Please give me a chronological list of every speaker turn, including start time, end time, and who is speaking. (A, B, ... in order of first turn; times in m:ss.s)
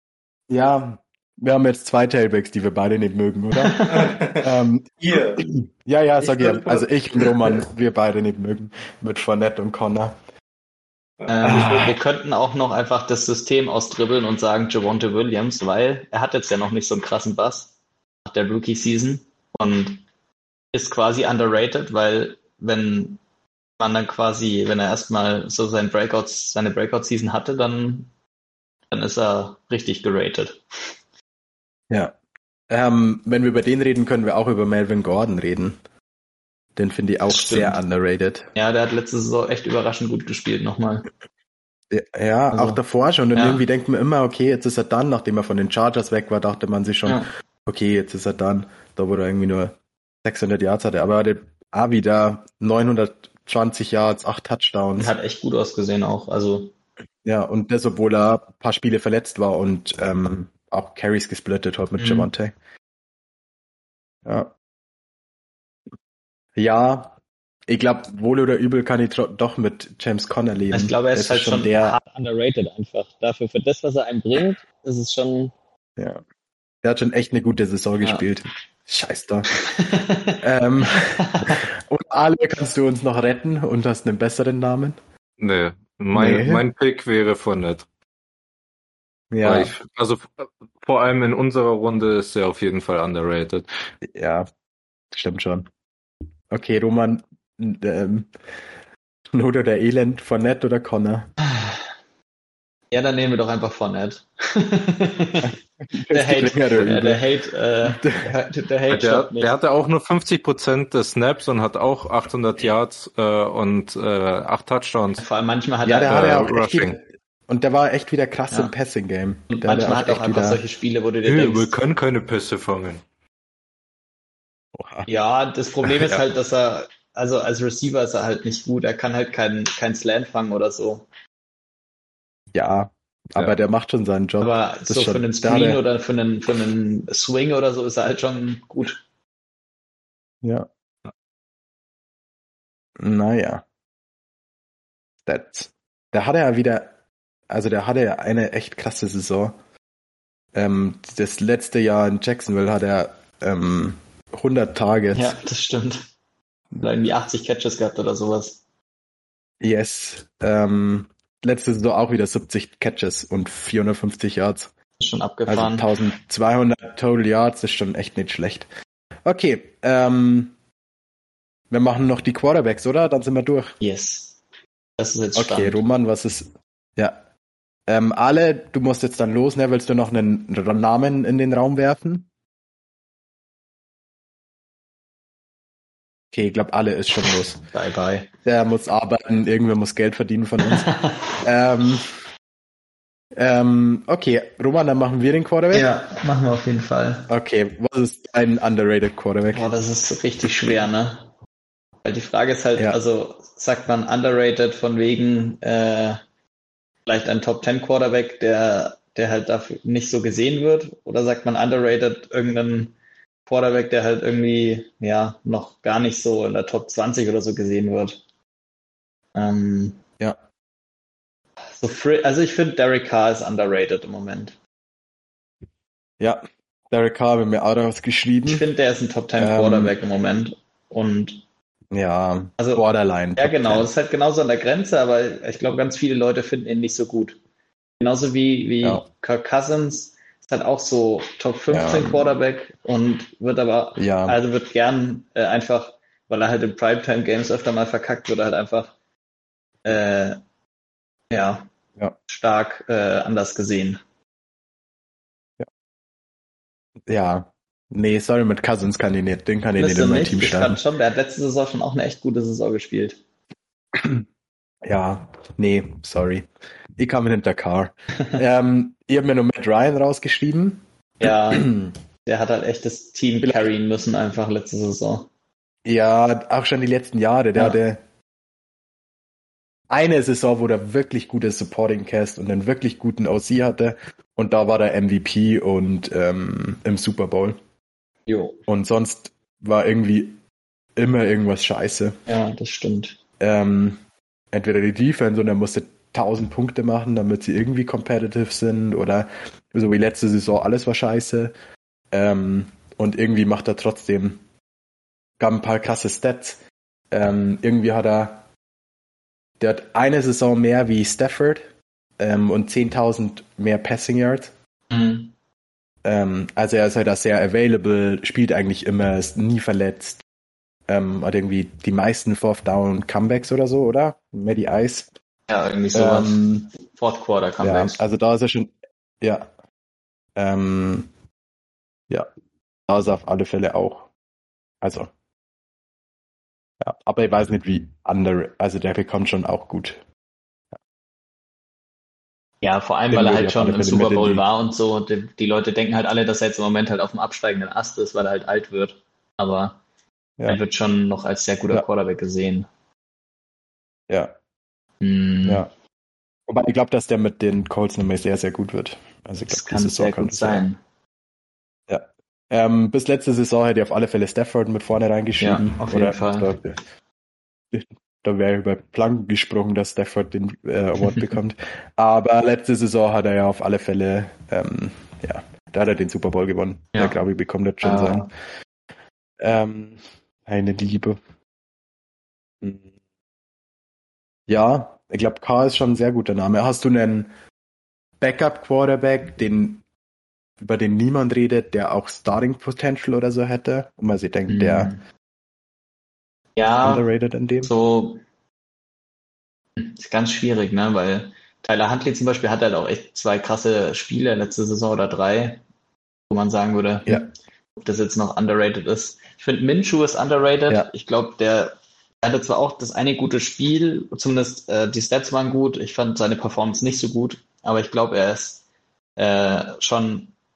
0:00.5-0:10.2 A
0:03.6-0:04.2 B
0:03.9-0:04.5 C
0:05.1-0:05.4 C
0:06.4-0:07.3 C
0:11.2-0:11.9 C
0:11.3-0:17.7 B
0:11.4-0:11.9 A
0:18.3-0:20.0 B
0:20.7-0:23.2 B
0:23.8-0:28.1 B
0:28.9-0:30.6 B
0:31.9-0:32.2 A
0:32.7-0:35.8 A
0:36.8-0:38.5 A
0:37.3-0:37.8 B
0:38.6-0:41.1 B
0:41.9-0:55.1 A
0:42.5-0:42.8 B
0:43.4-0:43.6 B
0:55.0-0:56.7 B
0:57.2-1:02.5 A
1:02.0-1:02.3 B
1:04.3-1:04.5 A
1:06.6-1:07.2 A
1:07.7-1:12.0 A
1:10.7-1:15.5 B
1:16.8-1:19.5 A
1:19.6-1:21.7 B
1:20.4-1:25.0 A
1:25.4-1:27.9 C
1:26.1-1:26.6 A
1:29.3-1:29.7 A
1:29.4-1:33.7 C
1:34.0-1:34.5 A
1:35.1-1:35.7 A
1:36.5-1:38.3 A
1:39.3-1:41.3 A
1:41.5-1:41.8 B
1:42.9-1:45.6 B
1:45.4-1:47.2 A
1:46.1-1:49.6 B
1:47.8-1:48.4 A
1:48.9-1:55.2 C
1:55.2-1:56.3 B
1:55.8-2:00.6 A
1:56.0-1:57.0 C
1:59.5-2:01.8 B
2:01.2-2:03.0 C
2:04.8-2:05.1 A
2:05.1-2:11.1 B
2:12.5-2:15.8 A
2:14.4-2:19.0 B
2:23.0-2:23.6 A
2:25.3-2:26.9 A
2:27.5-2:29.6 A
2:30.5-2:35.4 A
2:35.1-2:36.1 B
2:36.8-2:38.6 B
2:39.6-2:44.7 A
2:45.0-2:45.9 B
2:45.5-2:48.7 A
2:49.2-2:50.5 A
2:51.7-2:53.8 A
2:53.8-2:54.4 B
2:55.0-2:55.8 B
2:55.4-2:57.2 A
2:57.9-3:02.3 A
3:06.3-3:07.6 A
3:07.7-3:08.3 B
3:08.4-3:12.2 A
3:10.6-3:11.4 B
3:13.4-3:15.9 A
3:15.7-3:17.3 B
3:17.3-3:19.7 A
3:19.5-3:21.3 B
3:22.0-3:26.2 B
3:27.1-3:33.0 B
3:33.5-3:38.2 B
3:39.4-3:40.0 B
3:41.8-3:44.6 B
3:46.2-3:48.6 A
3:48.5-3:51.4 B
3:49.4-3:50.0 A
3:51.9-3:53.9 A
3:52.6-3:52.8 B
3:53.4-3:57.4 B
3:58.0-4:08.9 B
4:01.7-4:02.4 A
4:04.0-4:04.4 A
4:09.8-4:10.4 B
4:11.3-4:11.7 B
4:12.3-4:14.0 B
4:17.1-4:20.8 A
4:19.8-4:23.2 B
4:23.9-4:24.3 A
4:24.8-4:32.0 A
4:31.2-4:31.7 B
4:32.3-4:35.3 B
4:33.4-4:33.7 A
4:35.8-4:38.0 A
4:39.9-4:47.6 A
4:48.3-4:48.6 B
4:48.7-4:50.4 A
4:51.0-4:52.2 A
4:52.3-4:53.2 B
4:53.4-4:54.0 A
4:54.5-5:01.5 A
5:02.1-5:04.4 A
5:05.4-5:06.6 A
5:07.1-5:08.4 A
5:09.6-5:11.7 A
5:12.2-5:14.5 A
5:14.9-5:15.3 B
5:16.0-5:20.2 A
5:20.9-5:25.1 A
5:25.5-5:28.0 B
5:25.9-5:26.7 A
5:27.6-5:29.5 A
5:30.4-5:31.1 A
5:32.9-5:34.1 A
5:34.8-5:35.1 A
5:36.8-5:40.0 A
5:42.6-5:49.8 B
5:43.1-5:44.4 A
5:50.5-5:52.7 B
5:54.1-5:54.3 A
5:55.0-5:55.7 B
5:56.5-6:00.6 A
5:59.4-6:00.8 B
6:01.9-6:06.8 A
6:05.4-6:06.5 B
6:07.7-6:18.3 A
6:11.0-6:11.3 B
6:17.8-6:18.3 B
6:19.4-6:21.2 A
6:22.6-6:22.9 A
6:24.5-6:27.3 A
6:28.2-6:29.8 A
6:30.6-6:34.9 A
6:34.5-6:35.0 B
6:36.6-6:37.0 B
6:36.8-6:37.7 A
6:37.6-6:38.2 B
6:39.8-6:45.6 B
6:46.3-6:47.3 B
6:47.8-6:58.6 B
6:59.2-7:00.3 B